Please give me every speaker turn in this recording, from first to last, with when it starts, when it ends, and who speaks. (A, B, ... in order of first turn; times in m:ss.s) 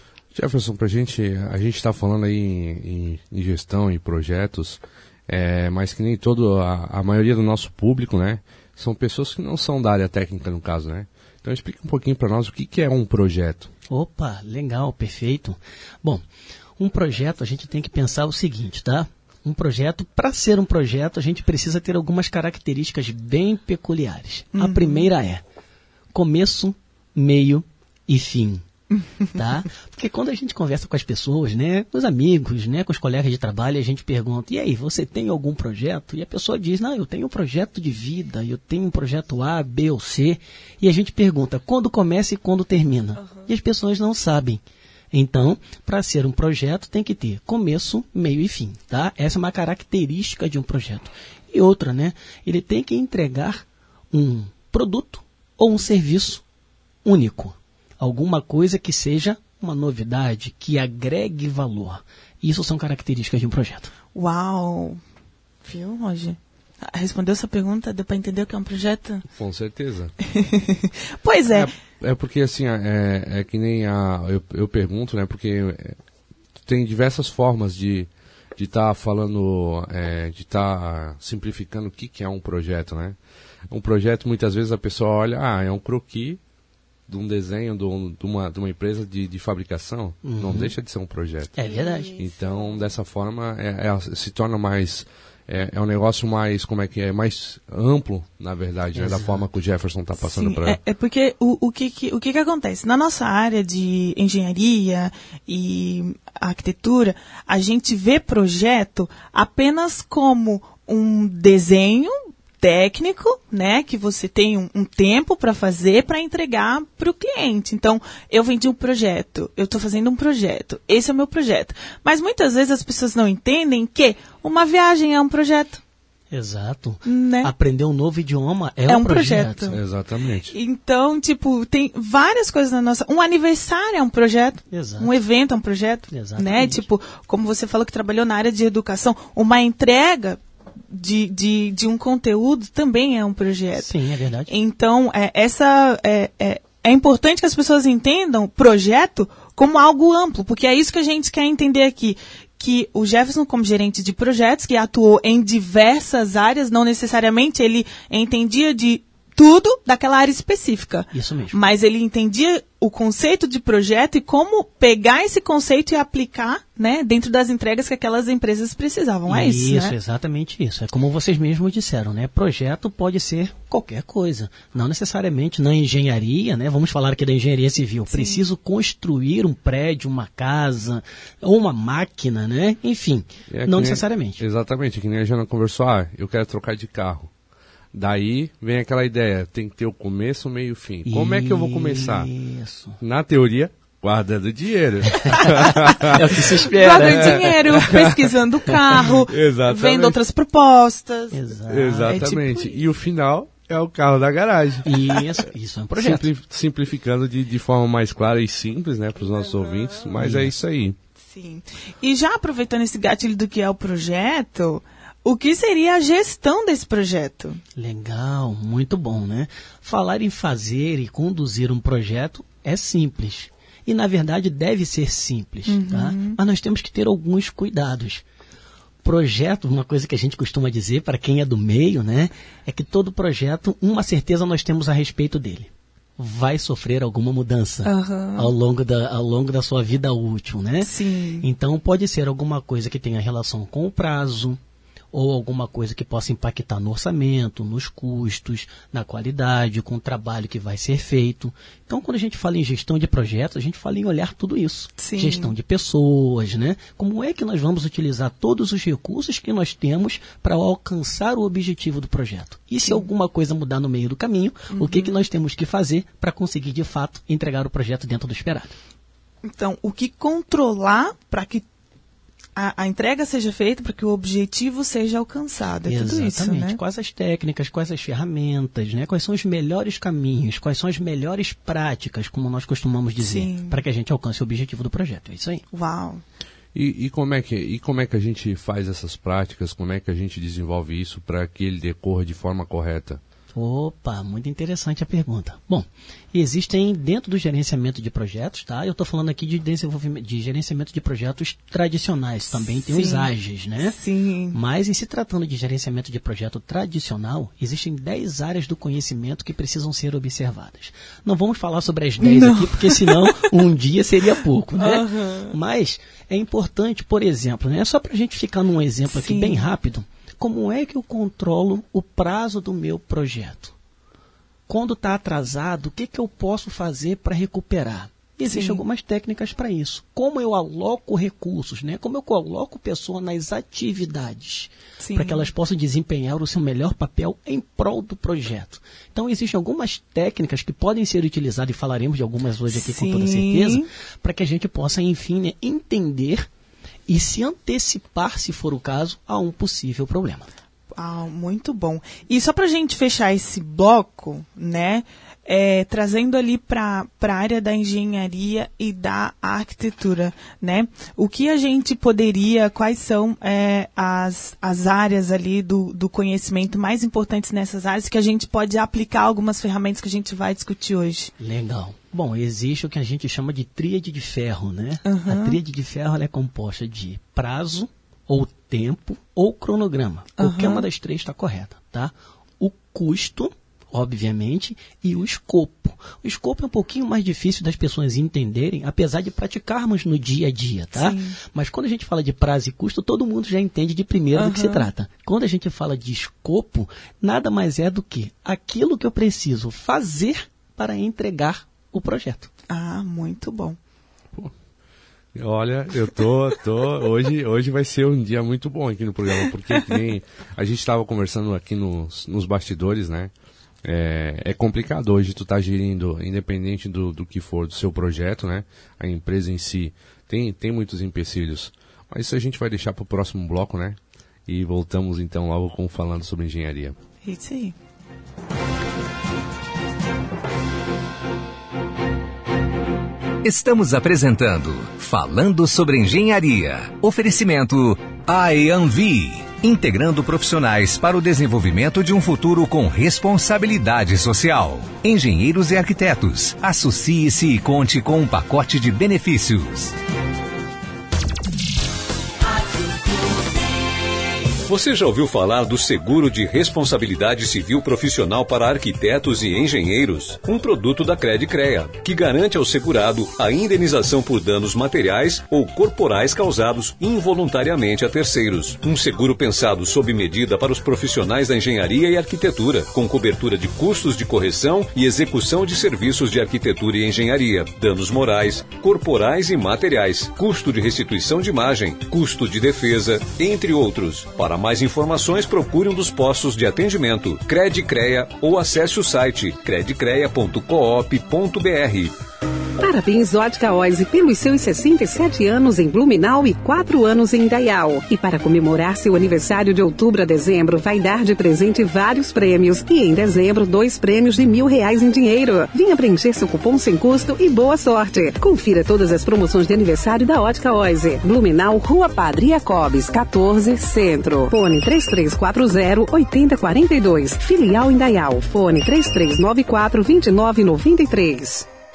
0:00.3-0:13.7 A
0:13.9-0:16.2 B
0:16.8-0:25.4 B
0:24.5-0:25.1 C
0:26.1-0:28.6 B
0:29.0-0:29.3 C
0:29.3-0:44.6 B
0:45.1-0:56.4 B
0:57.0-1:03.9 B
1:04.1-1:05.0 C
1:05.6-1:09.2 C
1:09.3-1:10.1 A
1:10.4-1:11.7 C
1:11.5-1:16.0 A
1:16.6-1:23.2 A
1:23.7-1:26.4 A
1:27.1-1:40.8 A
1:30.2-1:30.7 B
1:31.5-1:32.2 B
1:31.6-1:32.6 C
1:38.9-1:39.4 B
1:40.2-2:05.8 C
2:06.3-2:09.8 B
2:07.0-2:07.5 C
2:08.9-2:09.8 C
2:09.7-2:10.5 A
2:10.5-2:23.9 C
2:14.7-2:15.1 B
2:16.1-2:16.9 B
2:23.8-2:24.5 B
2:24.5-2:50.0 C
2:41.1-2:41.6 B
2:49.3-3:04.4 B
2:58.1-2:58.5 C
3:03.5-3:07.3 A
3:07.9-3:12.3 A
3:11.0-3:13.0 B
3:13.0-3:18.3 A
3:15.2-3:17.8 B
3:16.8-3:21.4 C
3:18.9-3:20.2 A
3:21.3-3:22.2 B
3:21.7-3:24.9 A
3:22.0-3:22.8 C
3:24.8-3:26.3 B
3:26.0-3:31.0 A
3:30.2-3:30.6 B
3:31.2-3:37.6 C
3:37.8-3:48.2 B
3:45.7-3:46.4 C
3:49.0-4:04.6 B
3:57.8-3:58.5 C
4:00.8-4:01.5 C
4:05.1-4:28.8 B
4:15.0-4:15.5 C
4:24.7-4:25.2 C
4:29.4-4:31.6 C
4:32.6-4:36.8 C
4:35.8-4:45.6 B
4:43.2-4:43.8 C
4:45.7-4:46.2 C
4:46.7-4:53.2 A
4:53.5-5:04.0 B
5:02.4-5:03.3 C
5:03.8-5:04.6 C
5:04.5-5:23.7 B
5:12.2-5:13.5 C
5:14.8-5:15.5 C
5:19.1-5:19.7 C
5:24.7-5:46.5 B
5:28.4-5:28.8 C
5:35.0-5:35.5 C
5:42.7-5:43.9 C
5:47.1-5:50.5 B
5:50.9-6:11.3 C
6:11.4-6:42.5 B
6:15.0-6:15.6 C
6:20.4-6:20.8 C
6:30.9-6:31.4 C
6:34.3-6:34.9 C
6:42.7-6:43.8 C
6:45.3-6:53.3 A
6:53.8-7:07.0 A
7:07.2-7:07.8 C
7:13.4-7:29.9 D
7:34.6-8:12.2 E
8:12.8-8:41.7 F